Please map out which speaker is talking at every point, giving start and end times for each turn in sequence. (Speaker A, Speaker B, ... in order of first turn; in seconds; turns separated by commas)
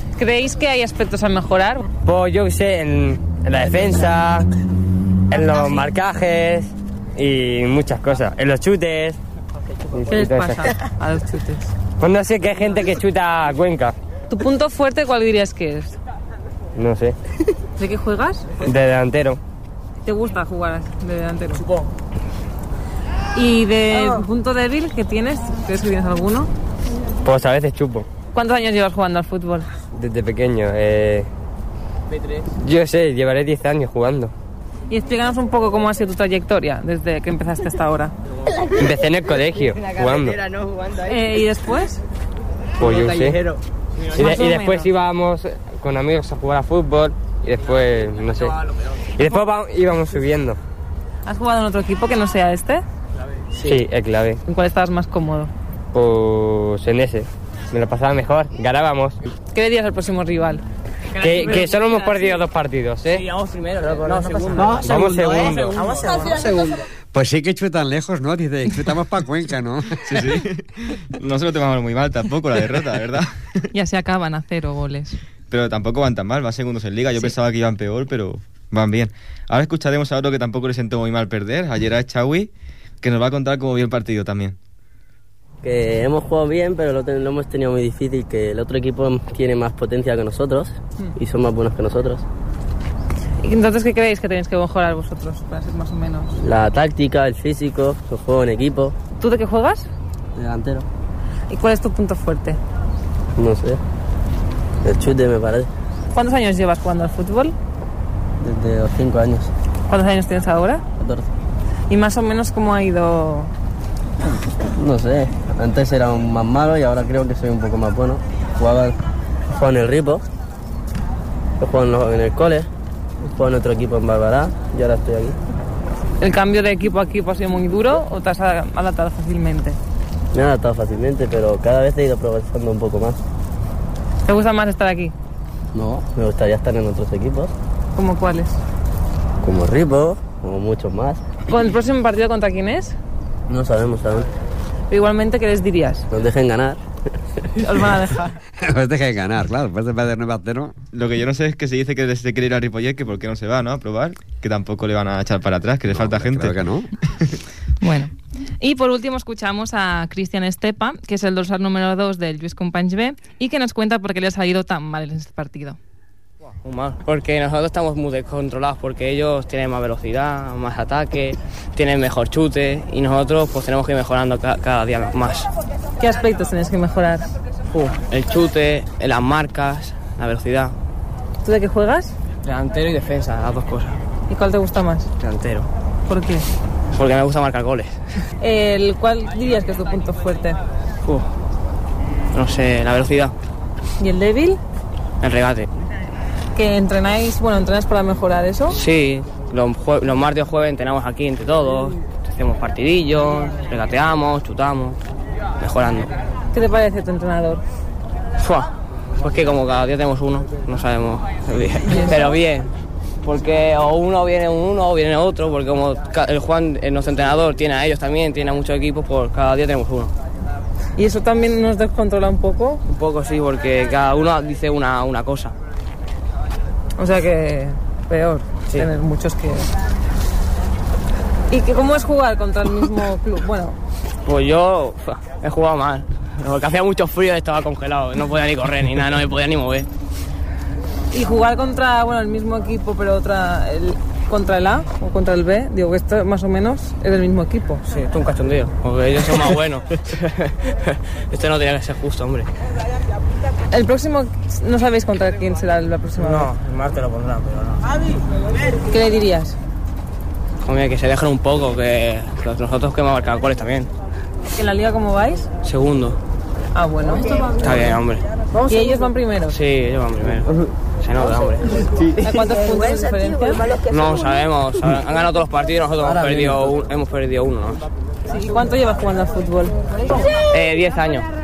Speaker A: 0.2-1.8, Speaker B: 2.0-4.5, Speaker B: 5.3-9.2, Speaker B: 9.9-10.7, Speaker A: 10.1-11.7, Speaker B: 12.0-13.9, Speaker A: 14.3-16.0, Speaker B: 16.7-17.1, Speaker A: 17.8-18.4, Speaker B: 18.6-19.4, Speaker A: 20.0-21.6, Speaker A: 23.3-26.5, Speaker B: 27.2-28.1, Speaker A: 28.3-29.7, Speaker B: 29.9-31.3, Speaker B: 32.5-34.3, Speaker A: 34.9-38.1, Speaker B: 38.7-40.4, Speaker A: 41.0-42.0, Speaker B: 42.8-43.4, Speaker C: 42.8-43.5, Speaker B: 44.1-48.6, Speaker A: 44.2-44.9, Speaker B: 49.1-50.6, Speaker A: 51.2-52.8, Speaker B: 53.6-54.4, Speaker A: 54.5-55.5, Speaker B: 55.9-59.2, Speaker A: 59.5-60.6, Speaker C: 61.1-61.8, Speaker B: 61.2-63.2, Speaker A: 61.4-62.4, Speaker C: 63.0-66.5, Speaker D: 64.1-64.8, Speaker B: 64.7-65.8, Speaker E: 67.1-70.5, Speaker F: 70.0-73.7, Speaker A: 73.7-75.2, Speaker F: 75.5-84.5, Speaker G: 85.6-92.2, Speaker A: 93.4-96.3, Speaker G: 96.4-98.9, Speaker A: 99.2-99.9, Speaker G: 100.4-100.8, Speaker A: 101.5-102.6, Speaker G: 103.4-103.8, Speaker G: 104.8-105.7, Speaker A: 106.1-107.5, Speaker G: 108.4-109.5, Speaker A: 109.9-110.8, Speaker G: 111.0-111.3, Speaker A: 111.9-113.5, Speaker G: 114.8-119.0, Speaker G: 119.5-120.2, Speaker G: 121.6-122.7, Speaker G: 123.3-125.4, Speaker A: 126.2-129.8, Speaker G: 130.3-133.2, Speaker A: 134.2-135.1, Speaker G: 135.7-137.5, Speaker A: 137.9-138.6, Speaker G: 139.4-141.2, Speaker A: 141.5-142.9, Speaker G: 143.5-144.3, Speaker A: 144.9-146.0, Speaker G: 146.1-146.8, Speaker A: 147.6-148.4, Speaker E: 148.6-150.8, Speaker F: 150.9-156.6, Speaker E: 155.9-156.9, Speaker A: 157.8-165.8, Speaker D: 166.6-175.5, Speaker A: 176.0-177.3, Speaker D: 177.7-180.7, Speaker A: 181.4-182.1, Speaker D: 182.4-184.0, Speaker A: 184.3-185.1, Speaker D: 185.2-185.7, Speaker A: 186.1-186.4, Speaker D: 186.9-188.2, Speaker A: 188.4-190.6, Speaker D: 191.0-191.3, Speaker D: 192.3-193.3, Speaker A: 194.0-194.6, Speaker D: 195.2-195.7, Speaker A: 196.5-198.8, Speaker D: 198.7-205.0, Speaker D: 205.6-206.1, Speaker A: 206.5-207.6, Speaker D: 208.4-212.7, Speaker D: 213.2-220.1, Speaker A: 221.0-222.8, Speaker D: 222.8-225.5, Speaker A: 227.0-229.7, Speaker A: 231.5-233.8, Speaker D: 234.2-239.9, Speaker A: 241.1-247.8, Speaker D: 247.9-252.5, Speaker A: 253.7-256.5, Speaker D: 256.2-257.9, Speaker A: 258.8-259.6, Speaker D: 260.6-263.9, Speaker A: 264.6-265.5, Speaker D: 265.6-266.2, Speaker A: 266.7-267.5, Speaker D: 267.5-268.2, Speaker A: 268.6-269.5, Speaker D: 269.5-272.4, Speaker A: 272.2-273.8, Speaker D: 273.8-277.8, Speaker A: 278.3-280.2, Speaker D: 280.3-281.3